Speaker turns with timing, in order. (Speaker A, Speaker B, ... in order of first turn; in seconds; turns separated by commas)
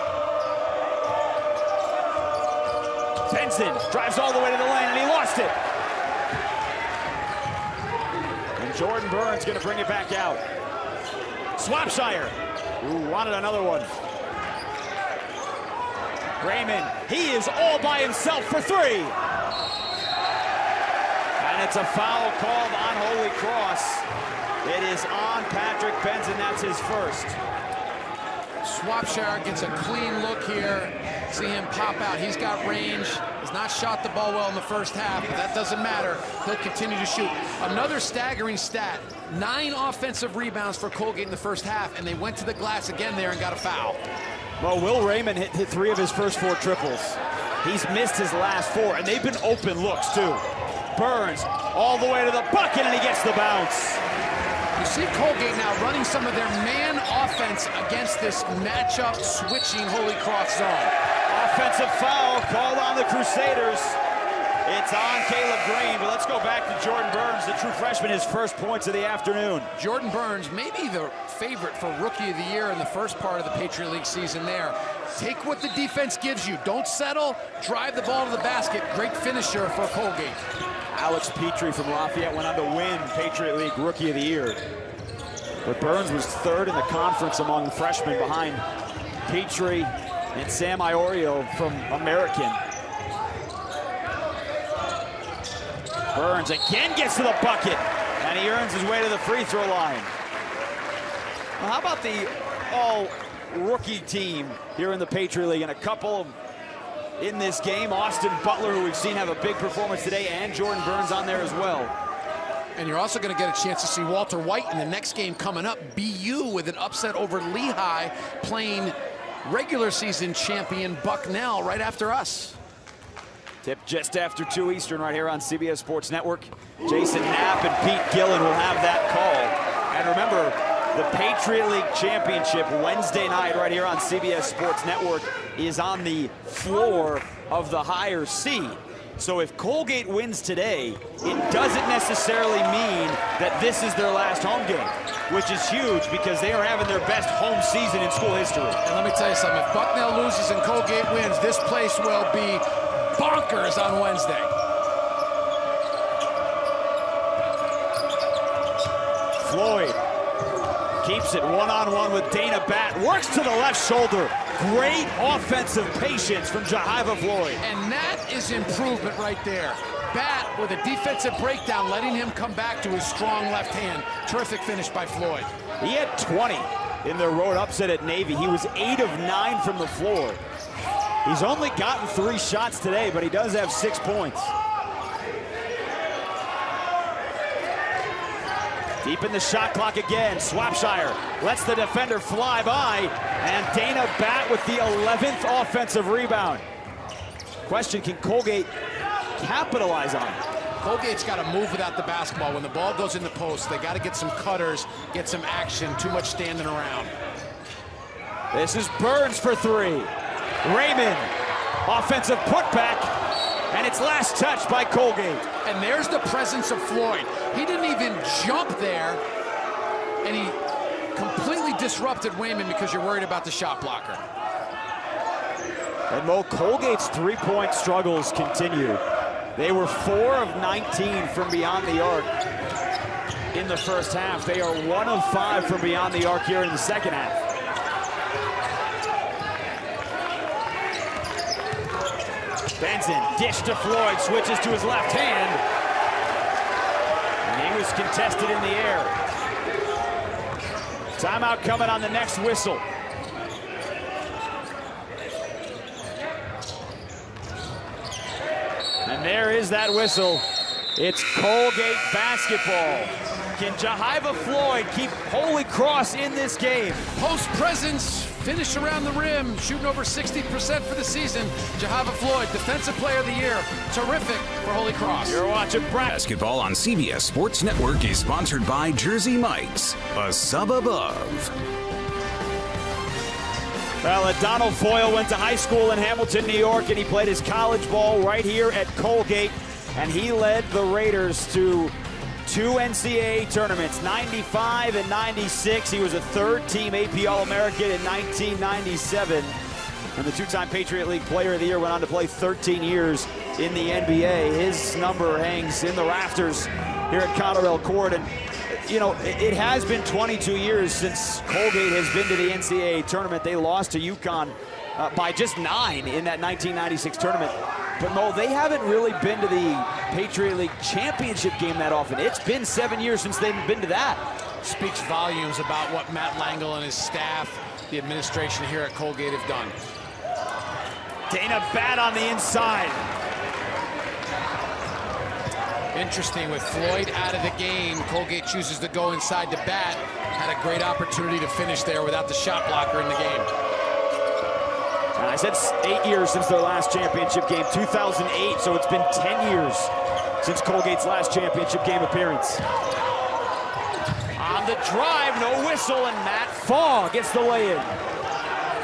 Speaker A: 3.3-5.5, Speaker A: 8.6-10.4, Speaker A: 11.6-13.9, Speaker A: 16.4-19.1, Speaker A: 21.4-24.1, Speaker A: 24.6-27.4, Speaker B: 28.6-44.0, Speaker A: 44.6-54.0, Speaker B: 54.8-60.9, Speaker A: 61.3-64.0, Speaker A: 64.7-69.7, Speaker B: 69.8-80.4, Speaker A: 80.9-84.6, Speaker A: 85.7-88.6, Speaker A: 89.2-92.6, Speaker A: 96.1-100.1, Speaker A: 101.6-106.4, Speaker A: 107.2-111.9, Speaker B: 112.8-122.6, Speaker A: 123.6-148.8, Speaker B: 148.8-154.5, Speaker A: 159.4-160.0, Speaker A: 161.0-167.6, Speaker B: 167.6-175.5, Speaker A: 175.8-180.4, Speaker A: 181.2-184.5, Speaker A: 189.0-196.6, Speaker A: 197.7-198.7, Speaker A: 199.4-200.4, Speaker B: 200.8-207.1, Speaker A: 208.5-210.1, Speaker A: 210.6-211.3, Speaker A: 211.9-213.1, Speaker A: 213.7-215.4, Speaker B: 215.6-219.2, Speaker B: 220.2-220.6, Speaker B: 221.2-224.2, Speaker A: 226.1-229.0, Speaker A: 229.6-232.3, Speaker A: 233.5-237.4, Speaker A: 242.8-245.6, Speaker A: 247.4-249.1, Speaker A: 251.2-252.8, Speaker A: 259.1-260.4, Speaker A: 261.0-267.1, Speaker B: 267.1-275.4, Speaker A: 275.3-276.1, Speaker C: 276.1-281.5, Speaker A: 284.0-299.6, Speaker A: 300.1-324.2, Speaker B: 324.6-329.8, Speaker A: 331.3-333.1, Speaker B: 335.9-343.5, Speaker A: 345.2-352.6, Speaker A: 354.4-358.0